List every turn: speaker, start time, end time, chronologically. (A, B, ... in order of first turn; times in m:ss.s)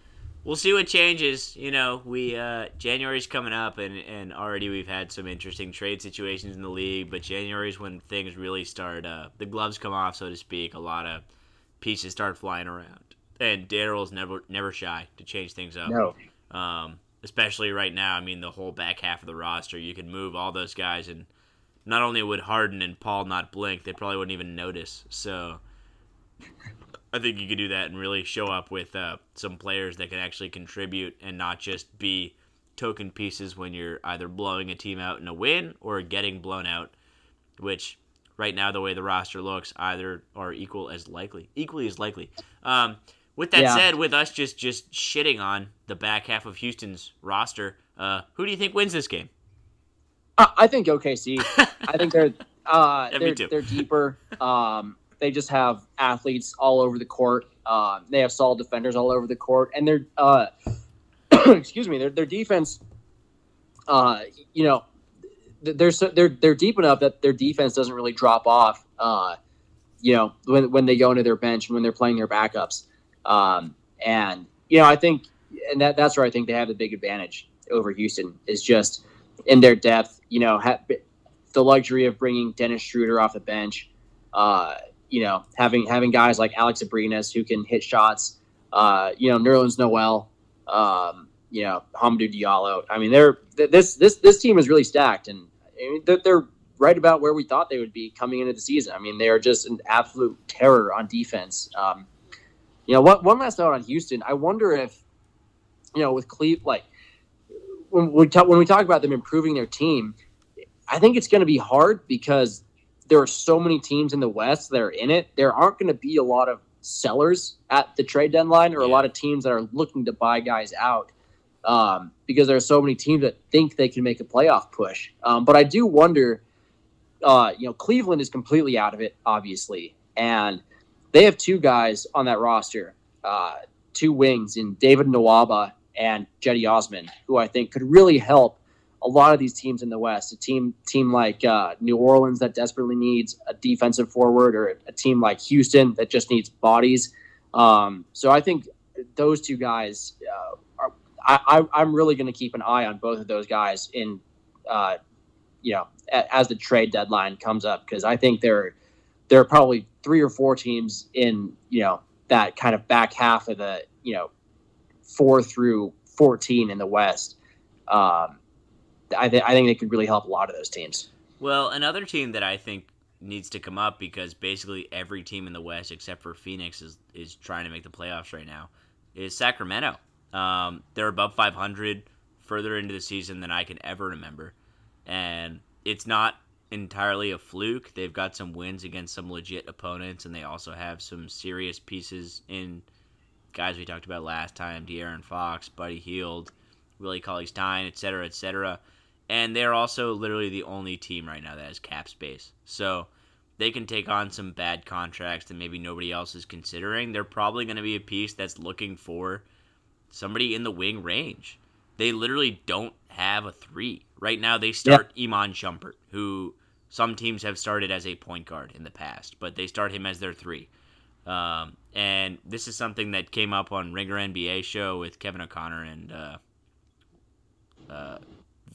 0:00.4-0:11.2 A
0:11.8-0:16.0 A
0:15.9-0:16.1 B
0:16.5-0:21.3 A
0:21.9-0:25.6 A
0:27.1-0:36.9 A
0:37.6-0:49.3 A
0:43.6-0:43.8 B
0:50.4-1:00.5 B
0:51.4-0:52.1 A
0:53.1-0:53.6 A
1:01.3-1:02.8 B
1:03.9-1:04.8 B
1:05.6-1:09.4 B
1:10.0-1:21.0 B
1:21.5-1:42.1 B
1:42.9-1:45.0 B
1:46.0-1:46.9 B
1:47.9-1:50.2 B
1:50.9-2:01.1 B
1:58.8-1:59.0 A
2:01.6-2:06.4 B
2:07.2-2:10.6 B
2:11.1-2:35.0 B
2:35.6-2:38.8 B
2:39.3-2:44.3 B
2:45.1-2:47.4 B
2:47.9-2:48.4 B
2:49.1-2:51.1 B
2:51.4-3:04.6 A
3:05.1-3:12.9 A
3:13.5-3:29.4 A
3:30.1-3:40.7 A
3:41.3-3:46.4 A
3:47.9-3:48.2 A